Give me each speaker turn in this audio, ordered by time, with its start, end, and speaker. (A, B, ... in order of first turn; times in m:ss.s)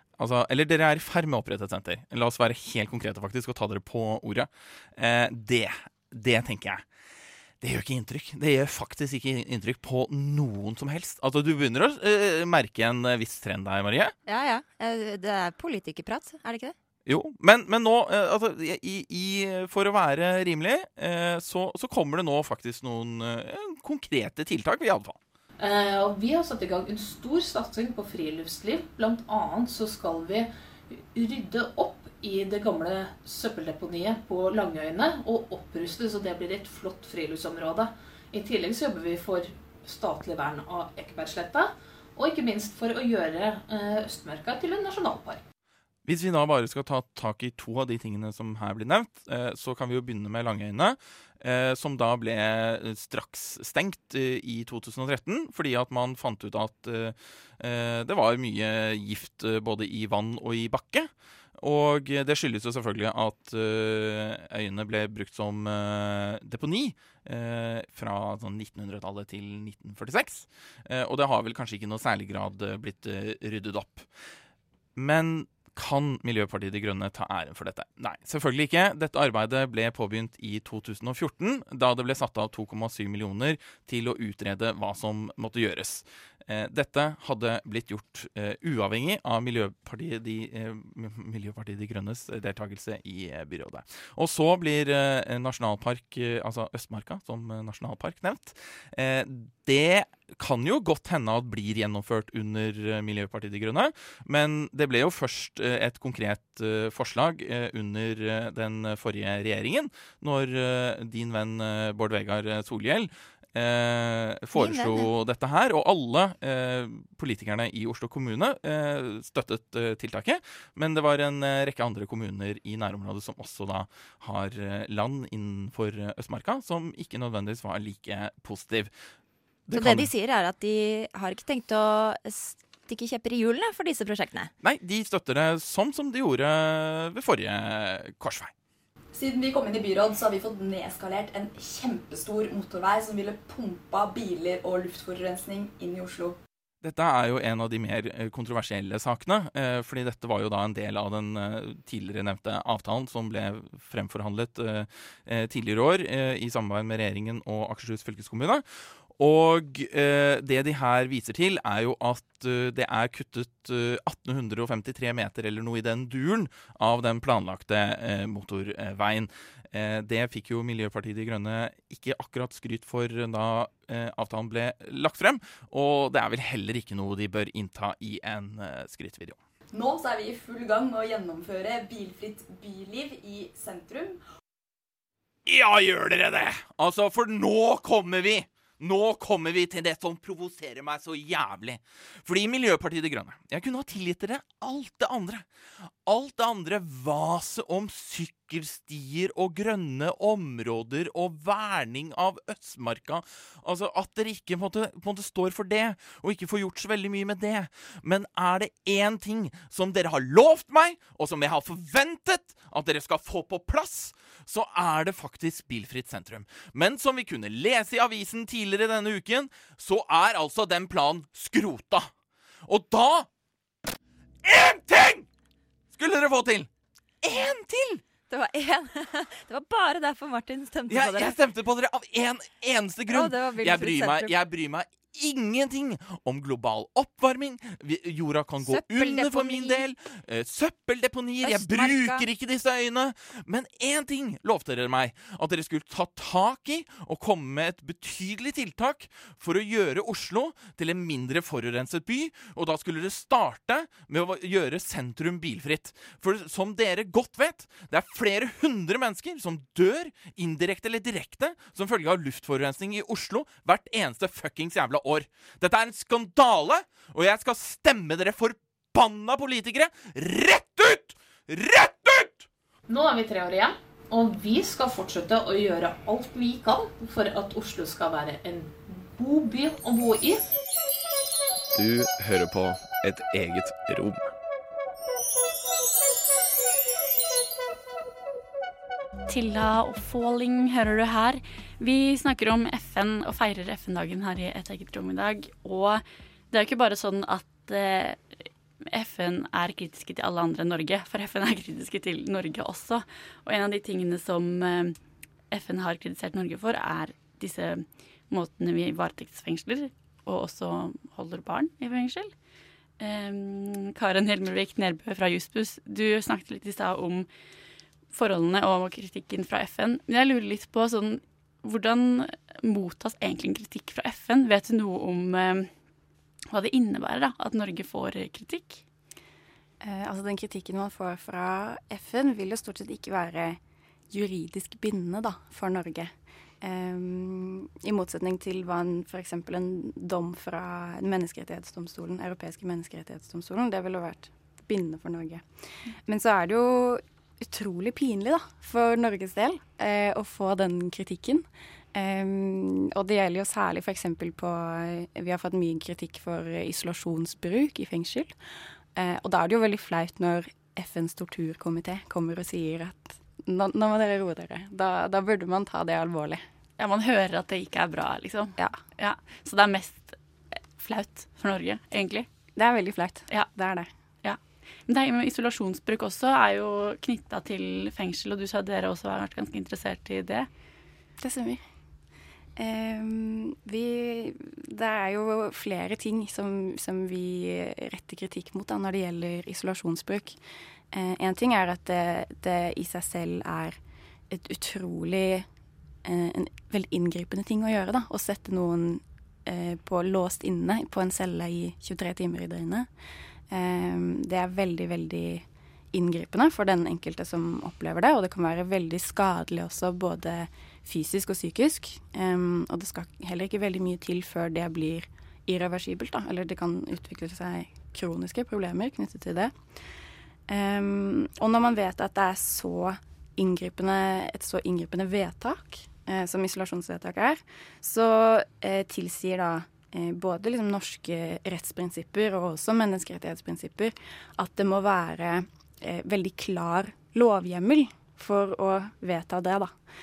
0:00.2-0:06.9 A
0:07.6-0:14.1 A
0:14.2-0:16.7 B
0:17.0-0:25.2 A
0:25.6-0:45.4 C
0:46.0-1:14.1 A
1:15.0-2:08.9 A
1:54.5-1:55.1 B
2:09.7-2:10.1 A
2:09.7-2:14.5 B
2:14.6-2:18.5 A
2:19.1-2:26.4 D
2:26.8-2:59.4 A
2:59.7-3:04.2 D
3:05.4-3:15.4 A
3:16.0-3:42.1 A
3:42.7-3:43.3 A
3:44.4-3:45.3 A
3:45.9-3:46.7 A
3:47.2-3:48.0 A
3:48.3-3:51.4 B
3:50.9-4:32.5 A
3:53.1-3:54.3 B
3:58.6-3:59.8 B
4:01.4-4:02.2 B
4:32.9-4:40.4 C
4:41.7-4:44.3 E
4:49.3-5:05.0 F
5:05.5-5:12.3 F
5:13.0-5:17.3 F
5:18.1-5:25.7 F
5:26.5-5:28.8 F
5:29.8-5:33.6 G
5:34.1-5:36.1 G
5:36.6-5:45.4 G
5:46.1-5:58.3 G
5:58.9-6:06.4 G
6:06.8-6:12.3 F
6:12.6-6:13.9 G
6:14.2-6:20.5 F
6:21.2-6:21.6 G
6:22.6-6:30.4 G
6:30.9-6:33.8 G
6:34.3-6:35.4 G
6:36.0-6:42.9 G
6:43.5-6:59.6 G
7:00.5-7:19.8 G